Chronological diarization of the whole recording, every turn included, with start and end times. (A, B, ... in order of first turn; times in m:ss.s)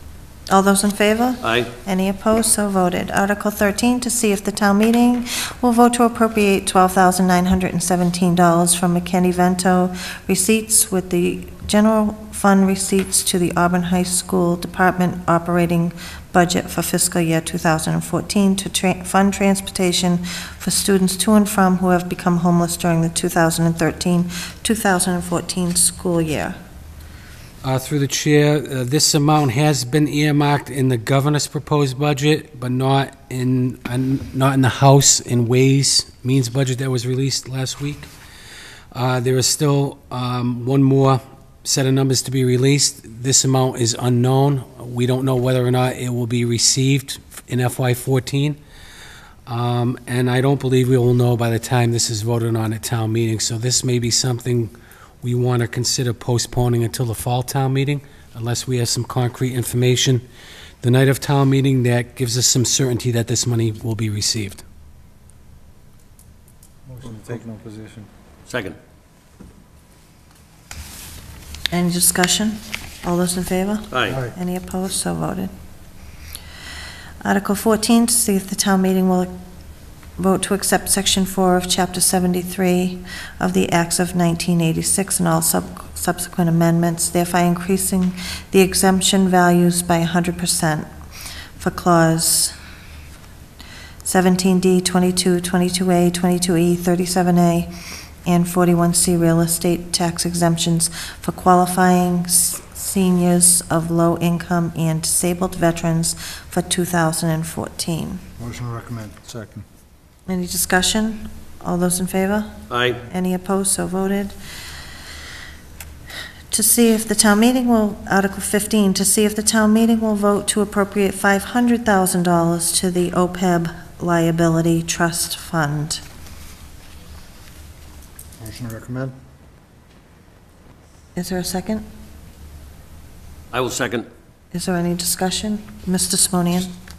0:00.5-0:26.6 A
0:01.4-0:01.7 B
0:27.6-0:38.1 C
0:38.9-0:48.6 C
0:49.5-1:00.2 C
1:00.8-1:04.6 C
1:06.9-1:08.1 D
1:08.5-1:08.8 B
1:11.7-1:15.5 A
1:13.9-1:14.2 B
1:17.2-1:19.3 A
1:20.2-1:30.9 A
1:31.6-1:32.5 A
1:34.0-1:37.7 A
1:38.2-1:48.2 A
1:48.4-1:49.6 D
1:50.3-1:54.3 A
1:52.7-1:53.0 B
1:56.5-2:06.0 A
2:08.4-2:09.2 D
2:11.2-2:11.8 A
2:13.5-2:14.1 B
2:14.5-2:16.7 A